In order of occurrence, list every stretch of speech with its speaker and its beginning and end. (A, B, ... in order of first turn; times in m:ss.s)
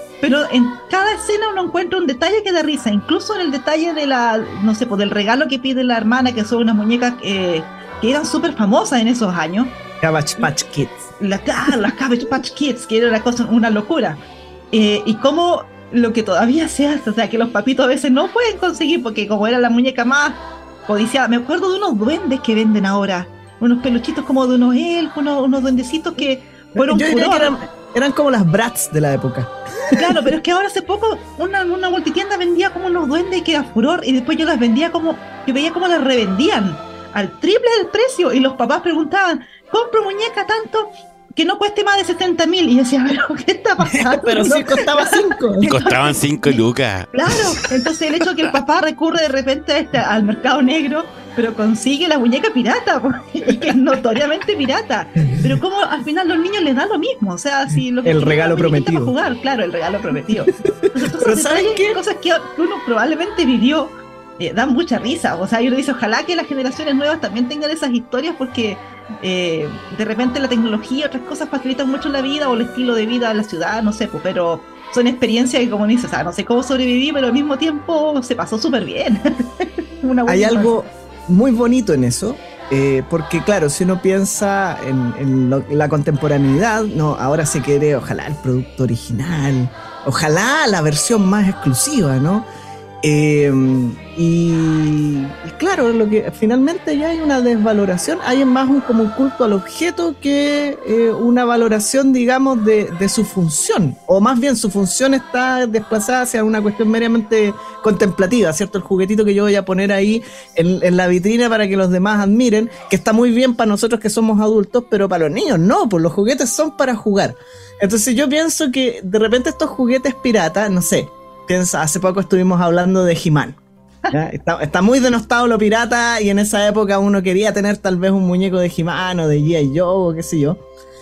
0:00.2-0:09.7 A
0:10.0-0:11.1 B
0:11.2-0:27.6 A
0:26.7-0:30.3 B
0:29.9-0:46.6 A
0:43.8-0:45.8 B
0:45.6-0:47.8 C
0:47.1-1:20.8 A
0:58.0-0:59.1 B
1:00.8-1:02.0 B
1:20.3-1:32.5 B
1:33.0-2:03.6 B
2:04.1-2:10.6 B